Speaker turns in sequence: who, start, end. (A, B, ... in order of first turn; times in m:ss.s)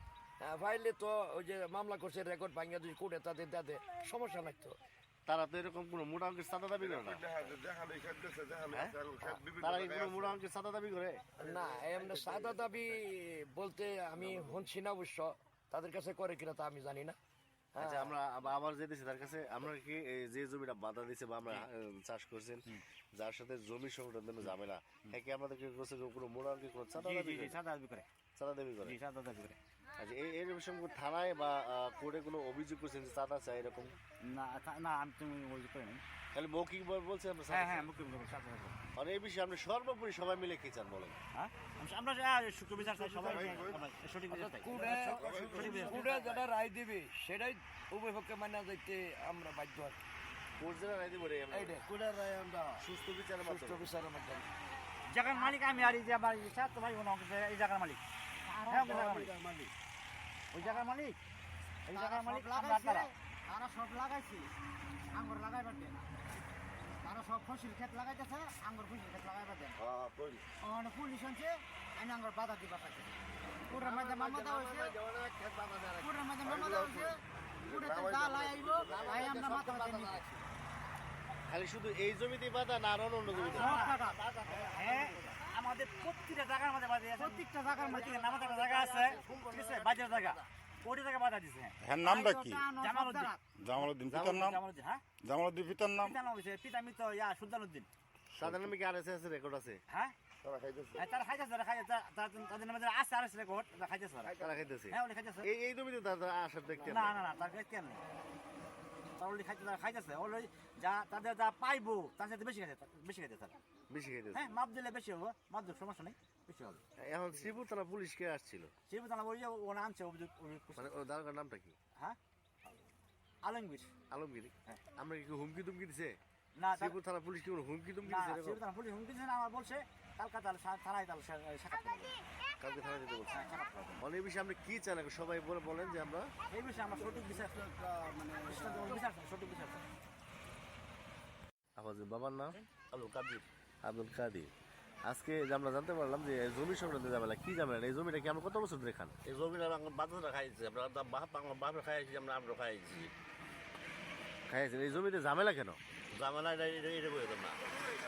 0:00.4-0:04.8 A
0:05.3-0:07.2 B
0:06.8-0:10.4 C
0:08.7-0:11.2 B
0:11.4-0:12.8 C
0:11.4-0:17.2 A
0:17.7-0:18.2 A
0:17.8-0:27.6 B
0:27.0-0:28.1 D
0:28.4-0:29.0 B
0:28.8-0:29.6 D
0:30.0-0:34.0 B
0:34.2-0:36.0 D
0:36.3-0:37.9 B
0:37.5-0:38.8 D
0:39.0-0:41.2 B
0:41.3-0:46.1 D
0:43.0-0:43.8 C
0:44.3-0:50.0 A
0:45.2-0:46.2 C
0:45.6-0:46.4 B
0:50.6-0:53.9 B
0:51.5-0:51.9 A
0:53.4-0:54.5 A
0:55.1-0:58.0 D
0:58.4-0:59.2 E
0:58.7-0:59.4 D
1:00.5-1:01.2 D
1:01.9-1:03.1 D
1:01.9-1:04.5 E
1:05.1-1:06.1 E
1:07.0-1:09.8 E
1:09.8-1:10.5 C
1:10.6-1:13.2 E
1:13.7-1:15.0 E
1:13.7-1:16.0 B
1:16.0-1:20.4 E
1:16.4-1:19.6 C
1:19.4-1:19.8 A
1:21.5-1:25.2 B
1:23.4-1:24.3 E
1:23.5-1:31.8 D
1:27.2-1:28.3 E
1:28.6-1:30.4 B
1:31.8-1:32.7 F
1:32.0-1:33.4 E
1:32.8-1:33.3 D
1:33.6-1:34.6 F
1:34.1-1:34.4 B
1:34.1-1:35.0 D
1:35.2-1:36.1 F
1:35.9-1:37.9 D
1:38.3-1:39.8 B
1:39.9-1:40.2 D
1:40.4-1:41.1 C
1:41.0-1:45.5 D
1:44.4-1:47.2 B
1:46.8-1:48.0 D
1:49.2-1:53.6 D
1:53.9-1:54.5 B
1:54.3-1:56.8 D
1:57.0-1:58.7 B
1:58.9-2:01.0 D
2:00.8-2:01.8 B
2:03.4-2:03.9 D
2:04.1-2:06.2 B
2:06.6-2:07.0 D
2:06.8-2:08.6 B
2:08.0-2:12.2 D
2:12.6-2:13.5 B
2:13.3-2:14.0 D
2:14.0-2:16.3 B
2:16.5-2:19.8 D
2:21.8-2:22.6 B
2:22.9-2:23.4 G
2:23.8-2:24.5 B
2:25.0-2:29.2 B
2:29.2-2:33.1 G
2:34.5-2:35.8 B
2:36.1-2:37.6 G